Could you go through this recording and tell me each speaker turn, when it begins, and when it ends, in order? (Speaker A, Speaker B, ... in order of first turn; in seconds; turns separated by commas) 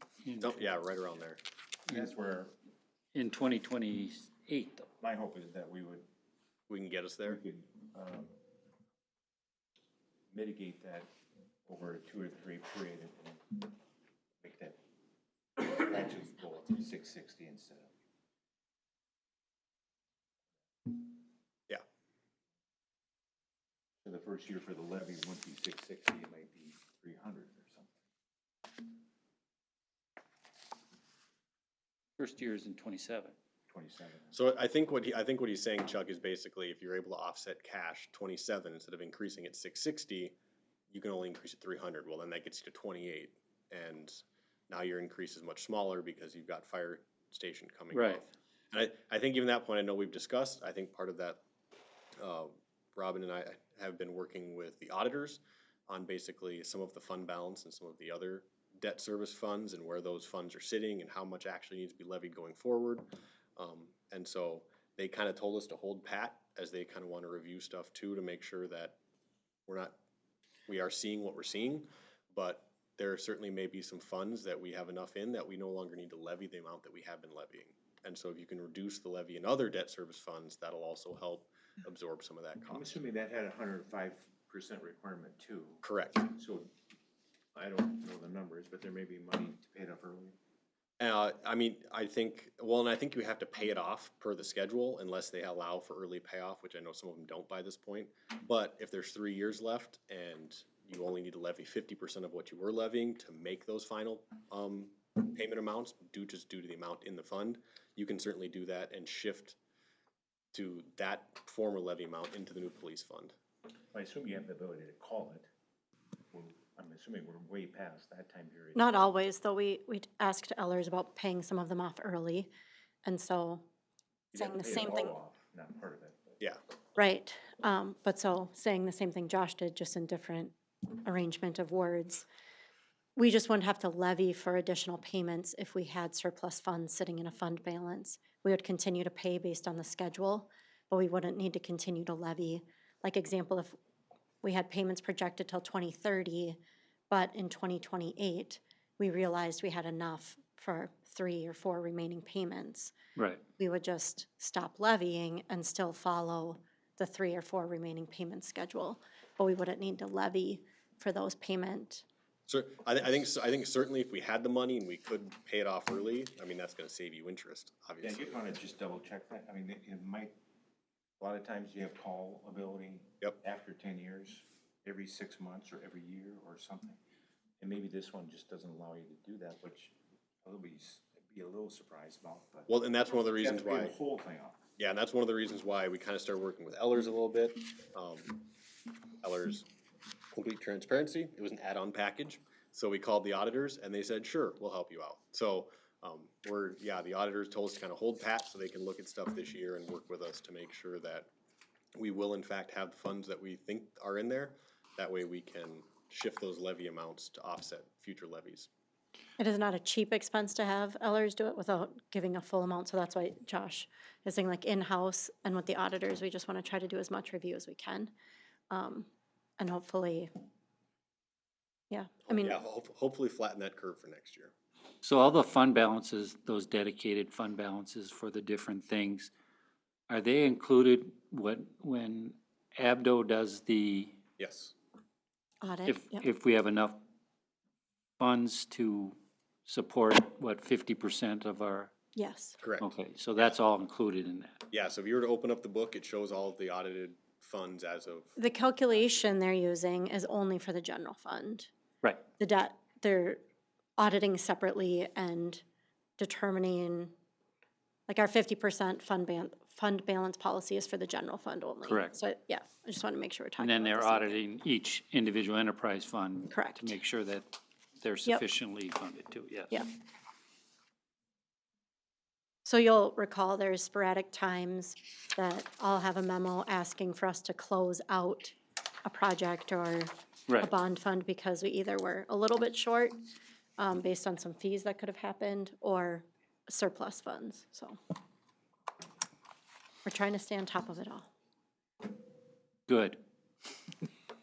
Speaker A: 0.2-0.6, Speaker B: 0.4-1.4, Speaker C: 1.9-2.5, Speaker A: 3.1-4.9, Speaker C: 5.0-6.1, Speaker B: 6.7-7.4, Speaker C: 7.2-8.3, Speaker C: 10.3-11.1, Speaker C: 11.6-13.7, Speaker C: 14.4-14.8, Speaker C: 15.6-17.9, Speaker C: 24.0-28.0, Speaker A: 32.2-33.3, Speaker C: 33.7-34.3, Speaker B: 34.3-40.3, Speaker B: 40.9-51.4, Speaker A: 47.9-48.2, Speaker B: 52.2-69.0, Speaker B: 69.7-70.0, Speaker B: 70.7-83.0, Speaker C: 82.7-86.7, Speaker B: 85.8-86.3, Speaker C: 87.5-90.4, Speaker B: 91.0-109.6, Speaker B: 110.5-113.3, Speaker C: 113.9-115.5, Speaker C: 116.3-119.0, Speaker D: 118.7-122.5, Speaker D: 123.0-123.6, Speaker C: 124.3-126.4, Speaker D: 124.3-125.1, Speaker D: 127.0-132.2, Speaker D: 133.2-143.8, Speaker D: 144.4-146.6, Speaker D: 147.1-152.9, Speaker A: 153.2-153.4, Speaker D: 153.6-162.0, Speaker B: 162.5-168.5, Speaker C: 168.0-170.3, Speaker C: 171.2-177.0, Speaker C: 177.6-182.7, Speaker B: 182.7-183.9, Speaker C: 183.3-184.6, Speaker B: 184.8-188.5, Speaker B: 189.2-189.7, Speaker B: 190.3-201.3, Speaker B: 202.0-208.7, Speaker D: 209.4-218.1, Speaker D: 218.7-219.1, Speaker D: 219.6-220.3, Speaker D: 221.9-222.6, Speaker B: 222.3-224.5, Speaker A: 225.0-229.3, Speaker A: 230.1-234.2, Speaker B: 234.4-234.7, Speaker D: 235.6-236.2, Speaker A: 235.8-237.0, Speaker A: 238.2-241.9, Speaker D: 242.1-242.6, Speaker B: 242.6-242.9, Speaker A: 242.8-244.6, Speaker B: 244.7-248.3, Speaker D: 248.3-251.7, Speaker D: 252.4-253.4, Speaker D: 254.0-255.6, Speaker D: 256.2-257.1, Speaker D: 258.1-264.4, Speaker A: 261.8-262.2, Speaker A: 263.6-269.8, Speaker D: 266.5-266.9, Speaker D: 272.6-283.2, Speaker D: 283.8-288.0, Speaker D: 290.0-291.3, Speaker A: 292.9-293.2